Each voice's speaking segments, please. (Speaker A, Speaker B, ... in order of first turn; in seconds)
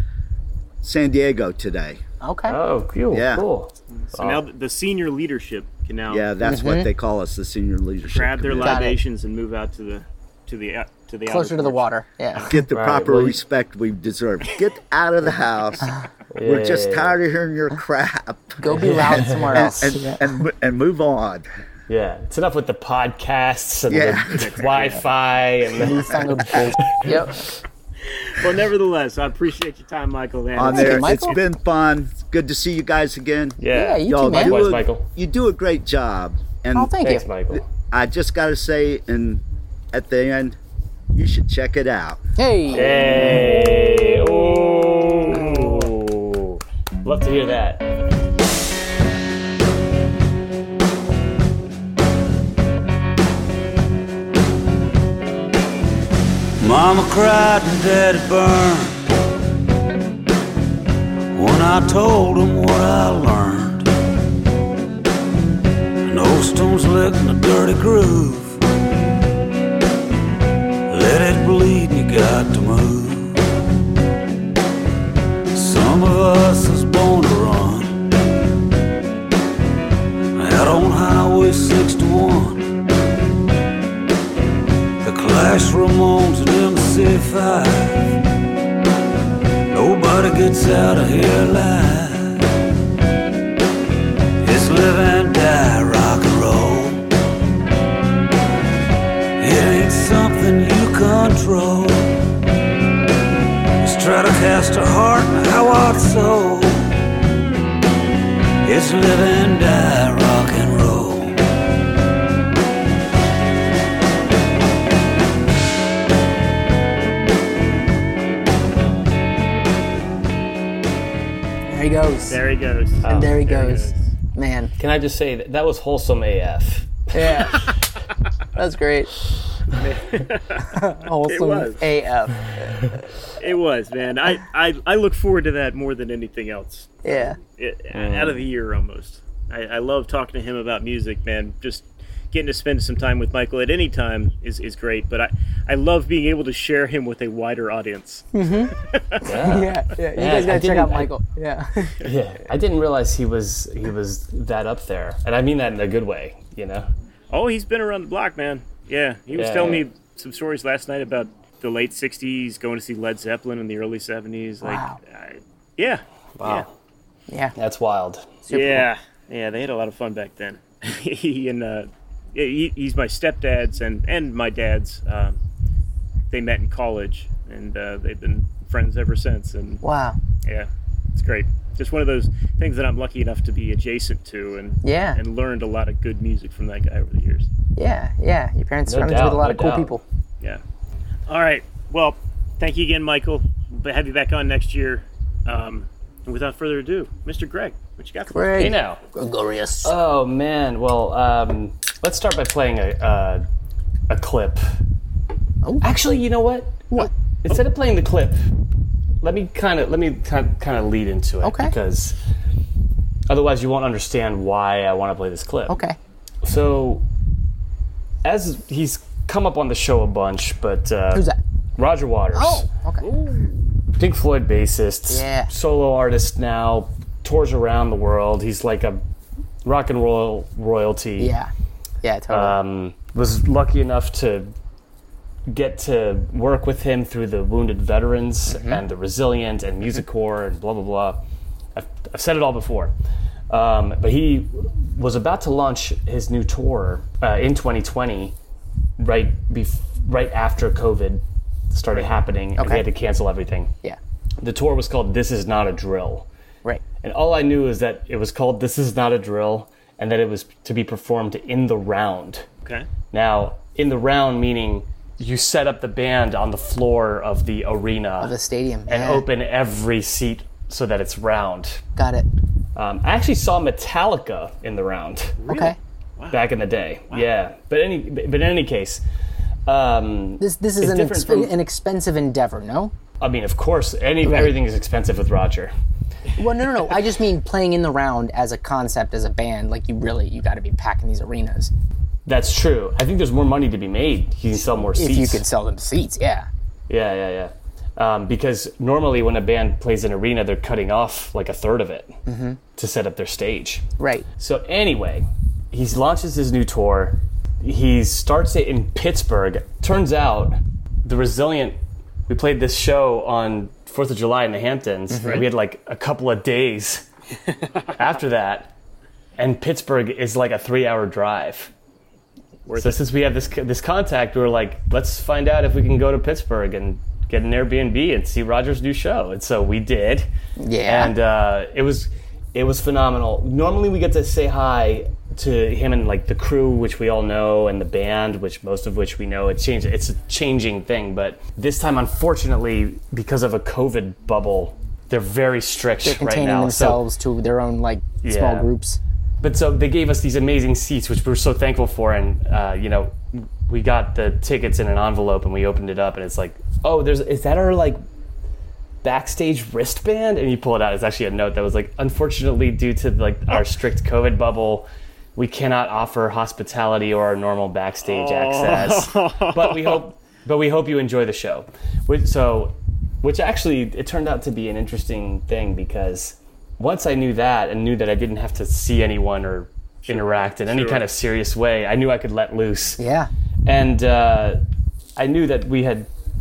Speaker A: 0.8-2.0, 3.1-3.5, 6.1-8.8, 12.4-15.9, 16.4-21.4, 23.9-24.4, 30.5-37.0, 37.5-40.6, 41.1-42.2
Speaker B: 2.2-2.6, 6.4-6.9, 8.6-9.0, 11.3-12.6, 18.6-20.3, 25.7-27.4, 30.6-31.4, 33.7-34.7, 36.7-37.2, 42.4-43.5, 121.7-122.4, 123.0-124.7, 127.1-127.7, 128.5-129.1, 130.7-132.9, 137.0-137.4, 148.3-148.7, 149.2-152.0, 164.6-165.0, 167.3-167.5, 168.5-168.8, 179.8-180.2, 184.8-185.2, 187.8-190.0, 198.3-199.9, 205.6-206.0, 211.4-211.7, 215.7-216.0, 222.3-223.0, 225.1-225.5, 231.2-231.5, 232.0-232.6, 238.5-238.8, 252.6-252.8, 268.2-269.2, 271.9-272.3, 275.4-275.8, 280.4-282.9, 284.2-284.5, 286.4-291.7, 294.5-296.5, 302.3-302.6, 304.0-304.2, 315.1-315.4, 330.6-331.1, 346.0-349.0, 383.0-383.3
Speaker C: 2.5-4.4, 12.7-13.4, 16.3-17.2, 18.7-19.7, 21.9-27.5, 33.6-35.0, 37.0-37.6, 42.7-47.8, 123.0-123.4, 124.8-127.6, 137.9-138.4, 149.2-151.1, 152.0-156.9, 159.3-159.8, 166.4-166.7, 167.5-168.3, 188.9-189.9, 198.6-199.0, 199.8-203.4, 204.1-204.6, 205.8-208.4, 209.2-212.2, 213.3-215.8, 216.4-217.0, 218.2-222.7, 224.0-229.0, 229.6-231.3, 232.3-234.5, 235.5-241.2, 241.7-242.9, 243.5-248.3, 249.0-253.7, 254.4-256.3, 257.0-262.5, 263.1-268.4, 268.9-271.8, 272.7-275.4, 276.3-279.0, 279.7-281.5, 283.2-285.7, 292.2-295.4, 296.9-302.2, 302.8-303.8, 304.4-311.8, 312.3-317.1, 317.9-318.7, 319.4-321.7, 322.8-330.3, 330.8-347.0, 348.2-348.7, 349.4-358.0, 359.0-383.0, 383.6-384.6, 385.1-386.1
Speaker D: 4.0-6.3, 8.1-12.4, 24.3-25.1, 28.1-31.4, 45.3-45.9, 122.3-124.1, 129.7-131.8, 133.4-136.9, 137.5-148.3, 148.8-149.2, 157.3-166.7, 168.5-175.4, 176.3-179.8, 180.4-187.5, 191.3-198.7, 223.0-223.6, 275.4-276.4, 315.2-315.4, 322.6-323.0, 368.0-370.0, 380.1-381.0
Speaker E: 56.6-59.0, 61.3-63.9, 66.0-68.6, 70.9-73.4, 75.5-78.0, 80.3-82.7, 85.0-88.2, 89.7-92.5, 94.4-97.0, 99.4-102.2, 103.8-106.9, 108.6-111.4